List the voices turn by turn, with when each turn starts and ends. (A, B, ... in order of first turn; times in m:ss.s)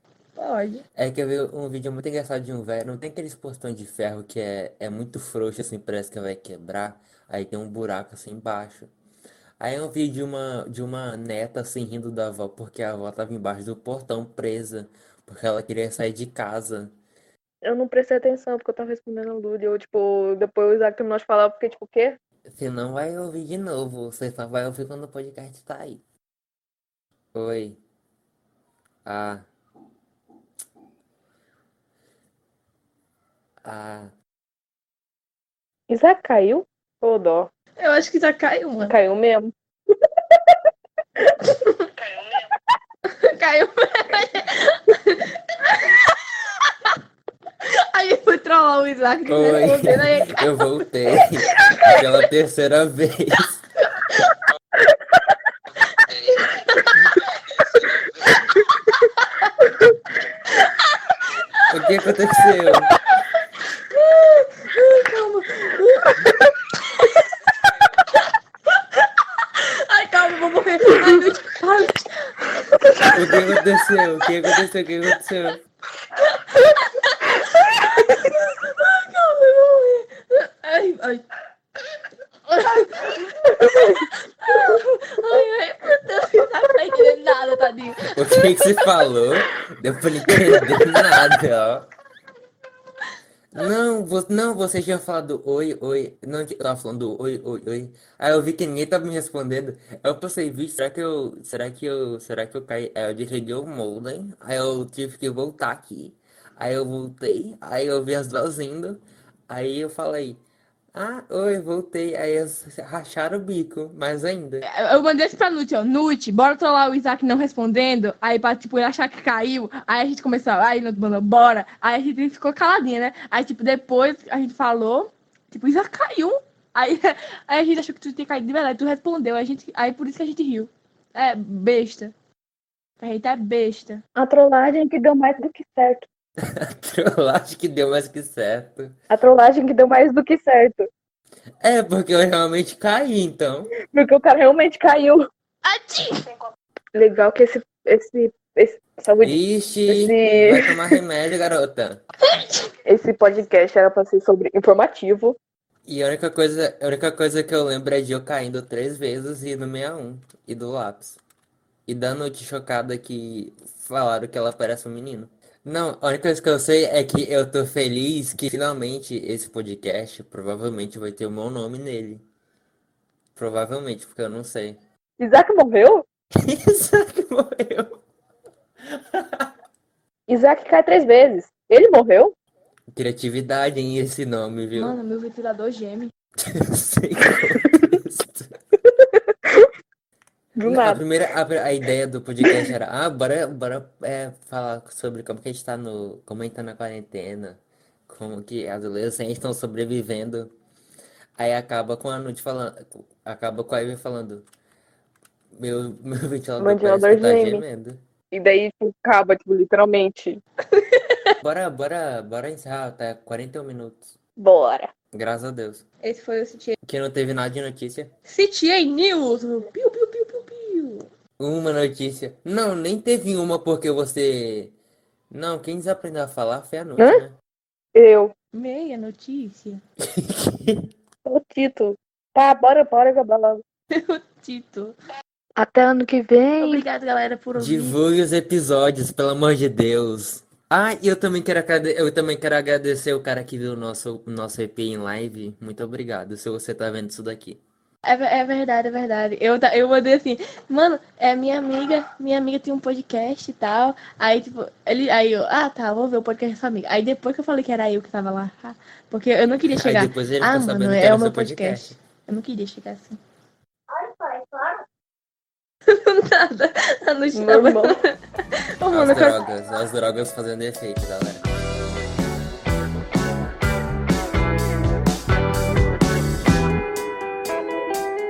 0:00.4-0:00.8 A
0:01.0-0:08.9 B
0:09.6-0:16.9 B
0:17.6-0:22.2 C
0:22.5-0:26.0 B
0:27.3-0:27.8 B
0:29.1-0:29.4 B
0:33.6-0:34.1 B
0:35.9-0:37.5 C
0:37.8-0:38.9 A
0:38.9-0:40.6 C
0:41.5-0:41.9 A
0:43.1-0:46.9 A
0:47.6-0:50.8 A
0:49.3-0:53.6 B
0:51.7-0:52.0 A
0:54.1-0:54.4 A
0:55.9-0:57.9 A
0:59.2-0:59.5 A
1:00.5-1:02.1 A
1:01.7-1:02.9 B
1:02.6-1:07.4 A
1:08.9-1:14.6 A
1:13.1-1:15.6 B
1:16.1-1:21.2 A
1:22.5-1:28.9 A
1:28.0-1:31.9 B
1:33.5-1:50.4 B
1:50.9-1:54.6 B
1:54.6-2:12.1 A
2:13.0-2:14.0 A
2:14.2-2:16.1 C
2:16.4-2:19.0 B
2:19.1-2:20.9 C
2:21.6-2:23.7 B
2:23.8-2:25.3 C
2:25.6-2:26.3 A
2:26.9-2:31.0 C
2:29.2-2:32.0 B
2:32.2-2:32.7 A
2:32.8-2:35.4 C
2:35.9-2:41.2 B
2:41.9-2:52.2 B
2:53.4-2:54.8 B
2:55.2-2:56.1 C
2:56.4-2:58.0 B
2:58.9-2:59.5 B
3:00.3-3:02.4 C
3:02.9-3:05.0 B
3:04.7-3:06.1 A
3:06.4-3:08.5 B
3:08.9-3:09.7 C
3:10.6-3:11.0 C
3:10.6-3:20.5 B
3:12.4-3:12.7 C
3:21.4-3:24.4 B
3:25.6-3:28.0 B
3:26.6-3:27.6 C
3:28.3-3:30.4 C
3:30.7-3:31.4 A
3:31.4-3:34.1 B
3:34.4-3:34.9 C
3:35.1-3:35.8 B
3:36.0-3:36.8 A
3:36.8-3:38.1 B
3:38.2-3:41.1 A
3:41.4-3:44.7 B
3:45.3-3:47.4 B
3:47.0-3:47.2 C
3:47.9-3:48.3 C
3:48.5-3:49.8 A
3:50.0-3:50.9 B
3:51.2-3:53.6 C
3:53.9-3:55.0 A
3:55.6-3:56.8 C
3:56.6-3:57.9 A
3:57.6-4:07.6 B
4:08.1-4:23.2 A
4:19.8-4:22.0 B
4:24.2-4:24.7 C
4:25.9-4:29.4 A
4:27.3-4:28.0 C
4:28.9-4:31.4 B